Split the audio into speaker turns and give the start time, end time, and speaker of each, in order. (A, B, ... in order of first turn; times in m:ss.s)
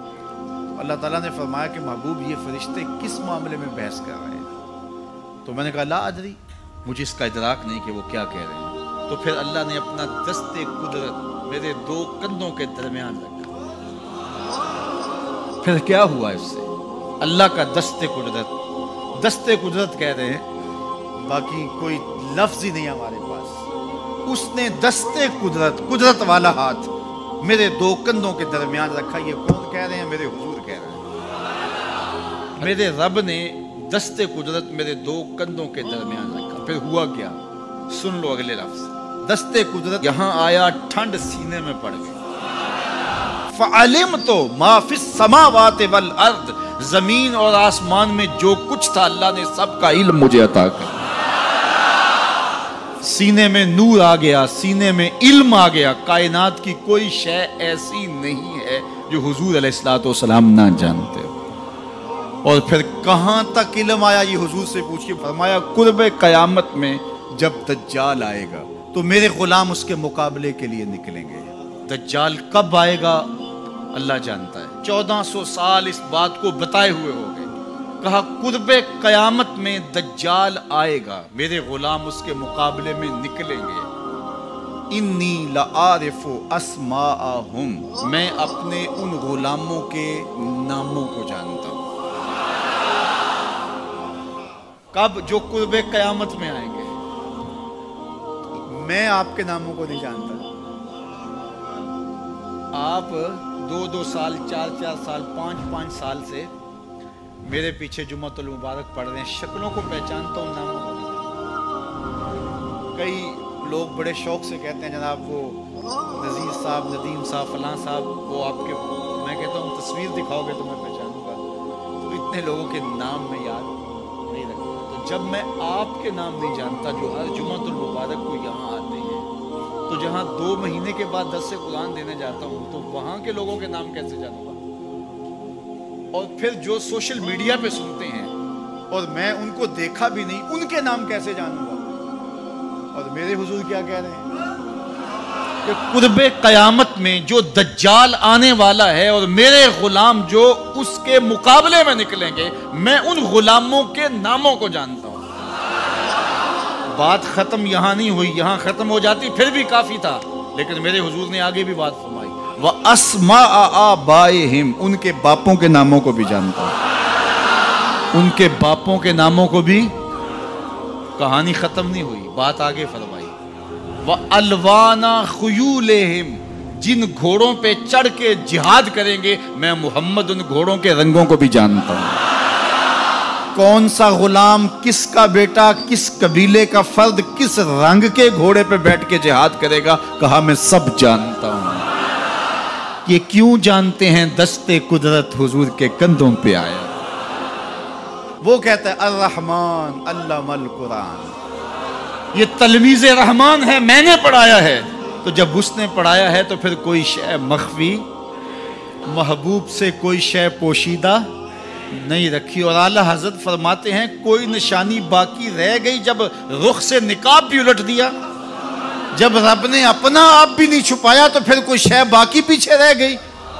0:00.7-0:04.5 A
0:05.4-0:13.5 A
0:15.6-0:18.5 A
0:19.1-0:20.4 A
0:21.2-0:23.7 A
0:24.3-0:31.0 A
0:32.6-0:42.2 A
0:43.5-0:51.0 A
0:53.0-1:01.3 A
1:02.4-1:13.3 A
1:13.9-1:23.9 A
1:24.9-1:31.8 A
1:34.9-1:36.9 A
1:38.7-1:40.4 A
1:42.7-1:46.5 A
1:47.4-1:51.2 A
1:52.9-1:55.6 A
1:56.1-2:01.4 A
2:02.0-2:09.3 A
2:09.9-2:14.6 A
2:16.1-2:18.3 A
2:18.9-2:21.8 A
2:22.9-2:24.3 A
2:25.6-2:35.2 A
2:36.9-2:46.8 A
2:48.1-2:49.9 A
2:51.2-2:53.3 A
2:54.0-3:02.2 A
3:03.5-3:11.8 A
3:13.0-3:16.9 A
3:18.4-3:21.3 A
3:22.3-3:28.1 A
3:29.0-3:31.3 A
3:31.9-3:38.2 A
3:39.1-3:43.2 A